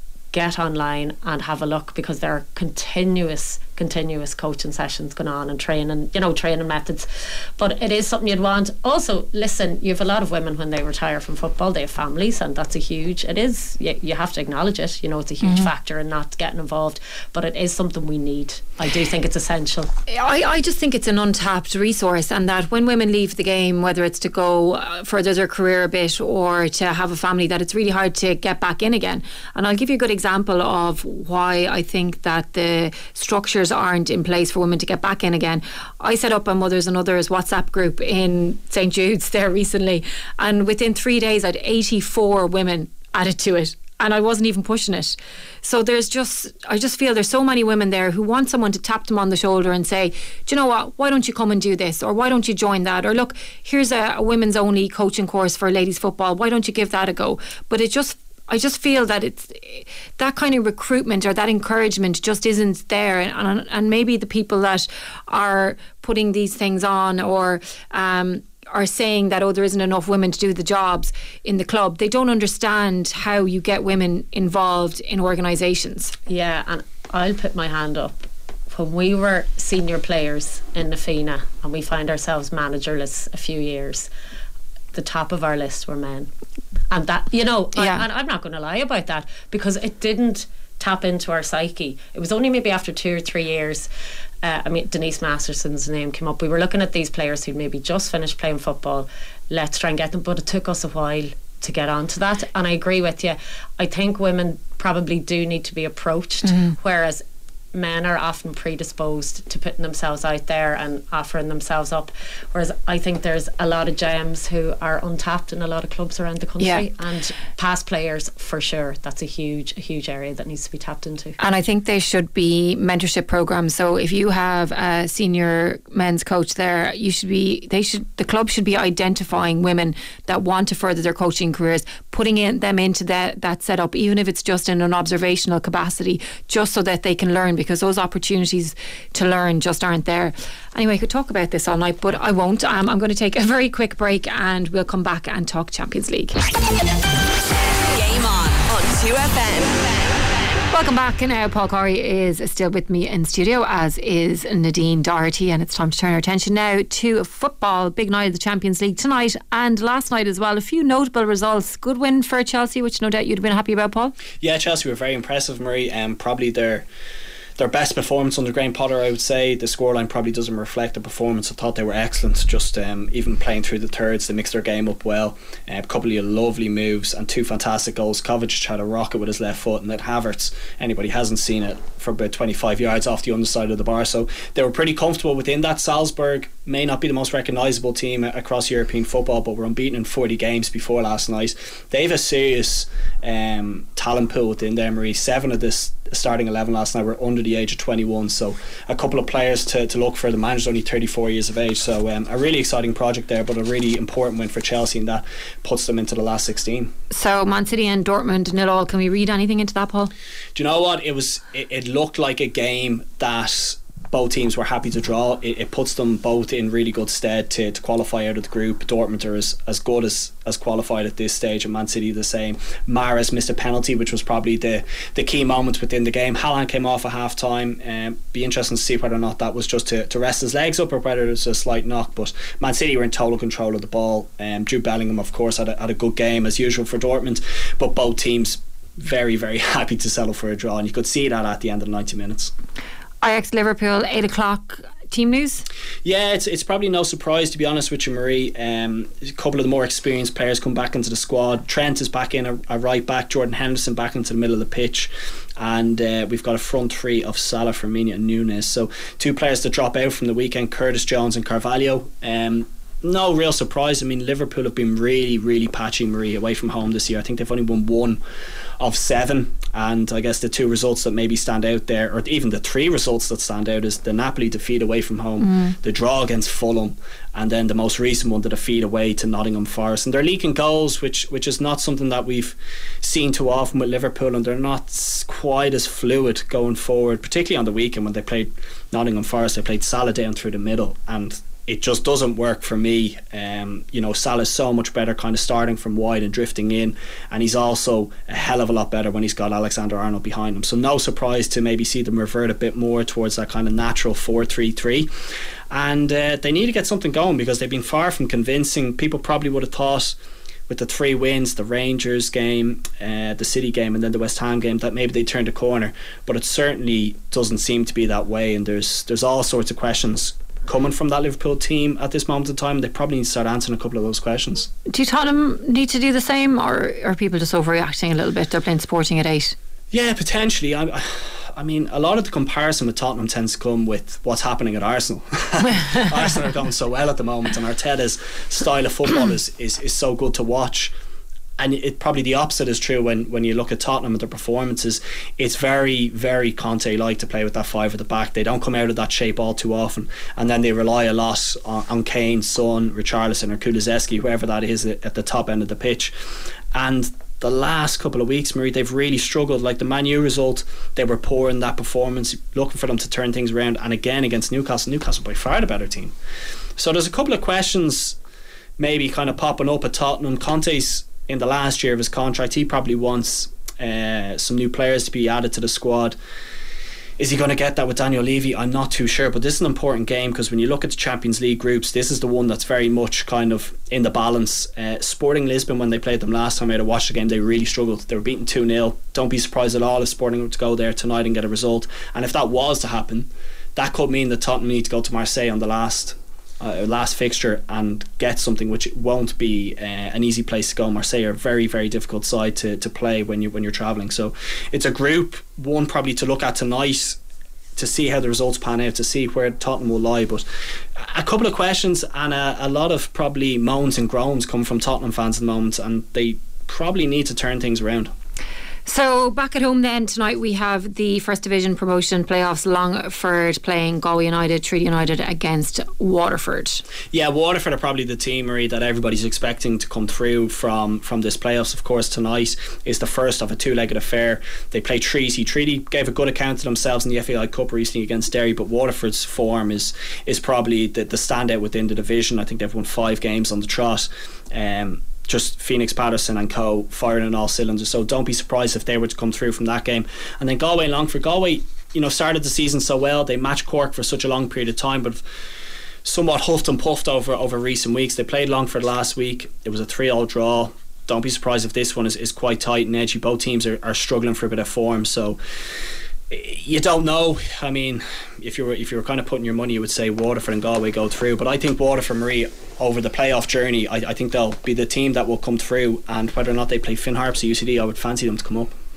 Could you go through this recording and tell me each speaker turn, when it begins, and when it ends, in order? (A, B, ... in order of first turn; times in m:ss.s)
0:00.3-0:19.9 A
0:15.4-0:15.7 B
0:20.1-1:16.1 B
1:16.3-1:18.2 A
1:18.7-1:24.1 A
1:24.9-1:26.3 A
1:26.9-1:33.9 A
1:27.7-1:28.0 B
1:34.4-1:47.2 A
1:46.4-1:46.7 B
1:47.7-2:01.4 A
1:56.6-1:56.8 B
2:01.4-2:26.4 B
2:27.5-2:30.6 C
2:30.7-2:44.1 B
2:44.4-2:46.8 D
2:47.6-3:26.9 D
3:27.1-3:30.1 B
3:30.5-4:02.5 D
4:03.2-4:05.6 B
4:06.0-4:28.2 D
4:28.8-5:05.1 D
4:35.4-4:35.7 B
5:05.7-5:10.2 D
5:10.7-5:24.7 D
5:24.9-5:29.5 B
5:29.9-5:40.9 D
5:41.6-5:56.1 D
5:56.7-6:06.1 D
6:06.8-6:08.2 D
6:08.8-6:16.2 D
6:17.2-6:47.2 D
6:47.8-6:50.4 D
6:51.0-6:58.1 D
6:58.8-7:06.8 B
7:07.1-7:35.2 D
7:36.0-7:45.4 D
7:46.3-7:58.7 D